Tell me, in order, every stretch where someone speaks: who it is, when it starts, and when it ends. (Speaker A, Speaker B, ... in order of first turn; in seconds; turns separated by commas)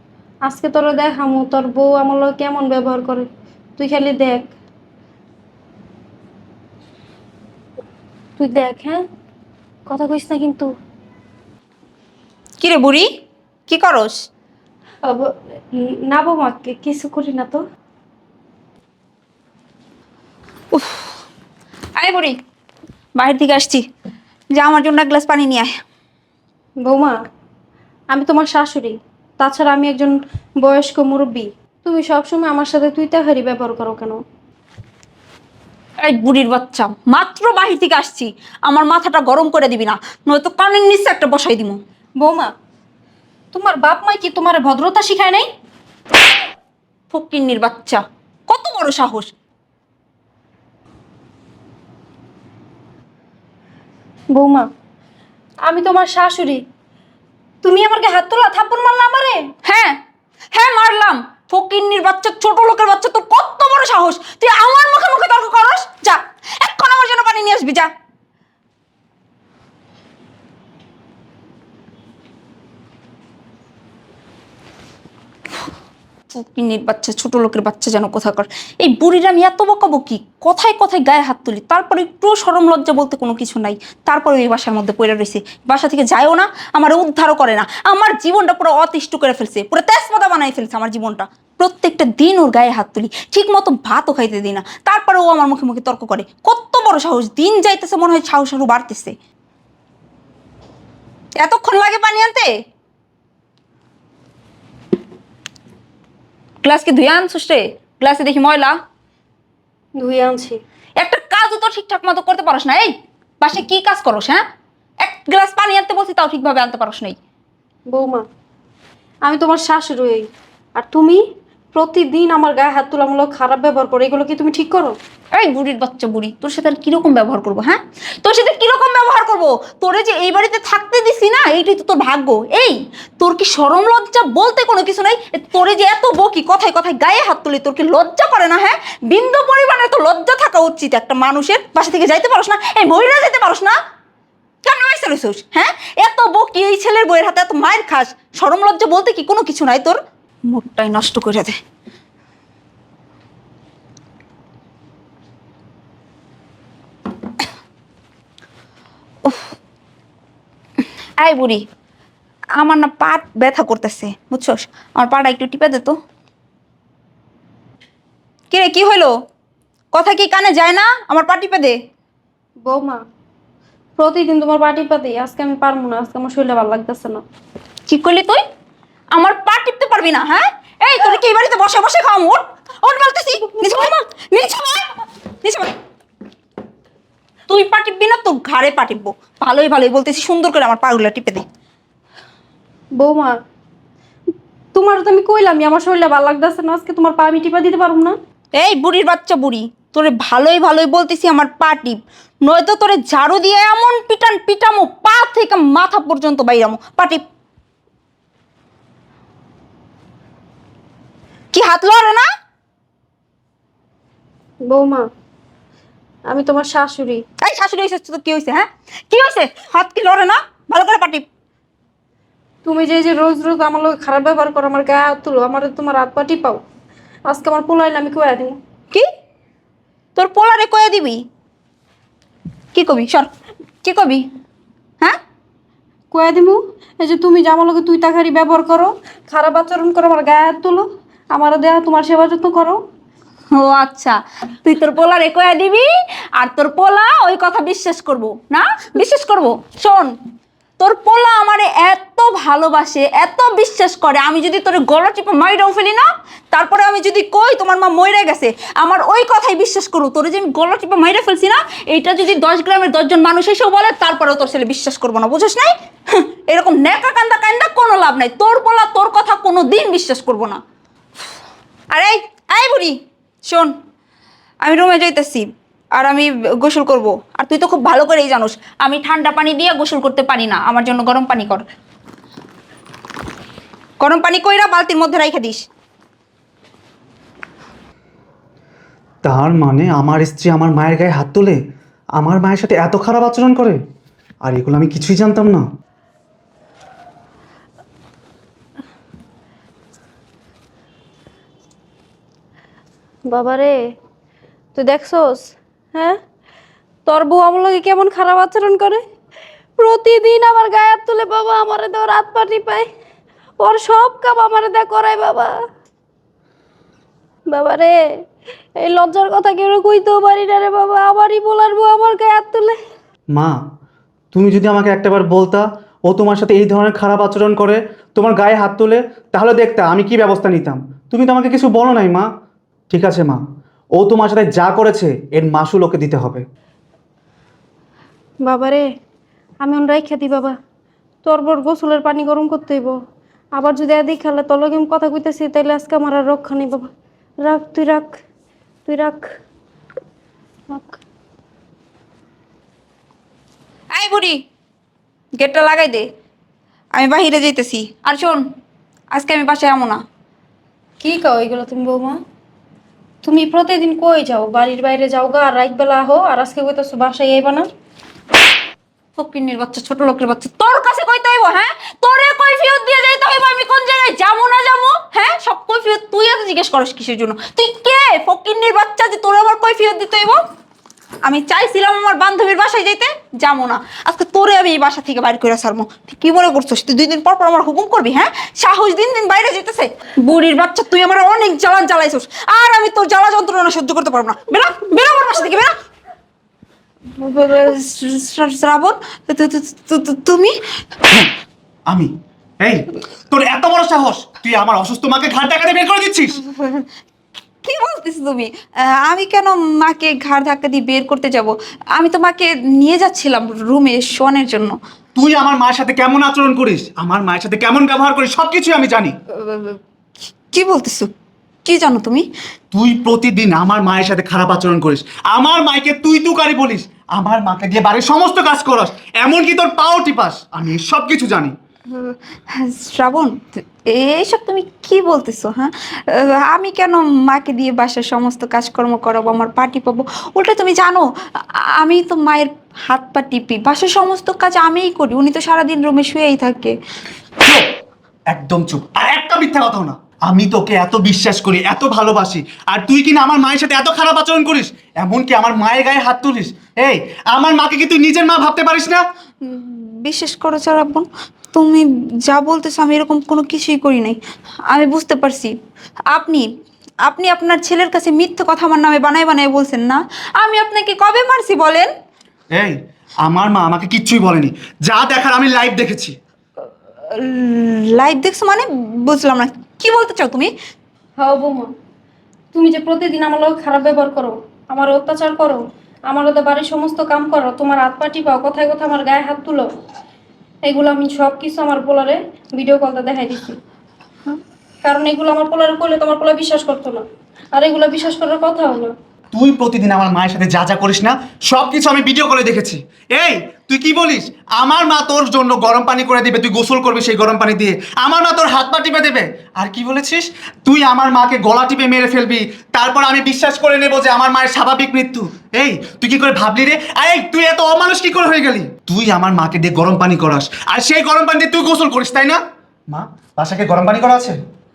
Speaker A: 0.5-3.3, Speaker A: 3.8-4.5, Speaker A: 8.4-9.0, Speaker A: 9.9-10.7, Speaker B: 12.6-13.1, Speaker B: 13.7-14.2, Speaker A: 15.1-17.6, Speaker B: 20.7-21.2, Speaker B: 22.0-22.4, Speaker B: 23.2-23.8, Speaker B: 24.6-25.7, Speaker A: 26.8-27.2, Speaker A: 28.1-34.2, Speaker B: 36.0-41.8, Speaker A: 42.2-42.5, Speaker A: 43.5-45.5, Speaker B: 47.1-49.3, Speaker A: 54.3-54.7, Speaker A: 55.7-56.6, Speaker A: 57.6-59.4, Speaker B: 59.7-60.0, Speaker B: 60.5-67.9, Speaker B: 76.3-99.1, Speaker B: 101.4-102.5, Speaker B: 106.6-108.8, Speaker A: 110.0-110.6, Speaker B: 111.0-114.4, Speaker B: 115.0-117.2, Speaker A: 117.9-118.2, Speaker A: 119.2-121.2, Speaker A: 121.7-125.0, Speaker B: 125.3-143.7, Speaker B: 144.7-150.0, Speaker B: 150.5-151.6, Speaker B: 159.2-159.5, Speaker B: 161.2-161.6, Speaker B: 162.6-166.0, Speaker B: 168.5-169.1, Speaker B: 169.9-171.8, Speaker A: 172.7-173.0, Speaker A: 174.0-177.2, Speaker B: 177.9-178.4, Speaker B: 179.1-185.7, Speaker A: 183.5-184.0, Speaker B: 187.5-191.4, Speaker A: 193.0-193.3, Speaker A: 194.7-198.2, Speaker B: 198.6-207.2, Speaker B: 211.5-212.3, Speaker A: 214.7-215.1, Speaker A: 216.3-217.2, Speaker B: 217.4-221.2, Speaker A: 222.7-226.6, Speaker A: 227.3-228.6, Speaker B: 230.2-231.2, Speaker B: 232.8-233.3, Speaker B: 233.8-234.2, Speaker A: 236.1-242.8, Speaker B: 243.5-250.1, Speaker B: 250.8-270.6, Speaker B: 271.9-273.7, Speaker B: 274.6-281.6, Speaker B: 284.0-285.6, Speaker C: 289.2-291.6, Speaker C: 292.2-293.8, Speaker C: 294.4-295.6, Speaker A: 303.3-303.8, Speaker A: 304.8-306.2, Speaker A: 307.1-309.0, Speaker A: 309.8-312.9, Speaker A: 313.6-315.5, Speaker A: 317.5-318.0, Speaker A: 318.8-322.8, Speaker C: 324.3-332.3, Speaker C: 332.9-333.4, Speaker C: 334.0-336.4, Speaker A: 338.4-338.8, Speaker A: 339.6-340.6, Speaker A: 341.2-342.9, Speaker A: 343.6-346.9, Speaker A: 347.4-348.2, Speaker A: 348.9-349.3, Speaker A: 350.7-351.0, Speaker B: 353.9-354.4, Speaker B: 355.4-356.1, Speaker B: 356.9-358.4, Speaker B: 359.1-360.0, Speaker A: 361.0-362.2, Speaker A: 363.2-367.7, Speaker B: 369.2-380.4, Speaker B: 381.2-395.7, Speaker B: 397.2-400.5, Speaker C: 401.9-406.4, Speaker B: 406.4-406.9, Speaker B: 407.6-414.8, Speaker C: 415.1-419.1, Speaker B: 419.3-419.8, Speaker B: 420.5-421.1, Speaker B: 421.6-422.3, Speaker C: 422.7-431.5, Speaker B: 431.9-446.8, Speaker C: 447.4-447.7, Speaker C: 448.3-459.0, Speaker B: 459.4-465.5, Speaker B: 466.1-466.5, Speaker B: 467.1-471.9, Speaker C: 472.5-476.1, Speaker B: 477.1-480.5, Speaker A: 481.2-481.7, Speaker A: 482.5-489.7, Speaker A: 490.7-493.6, Speaker A: 494.8-497.0, Speaker A: 497.6-498.9, Speaker C: 499.3-524.4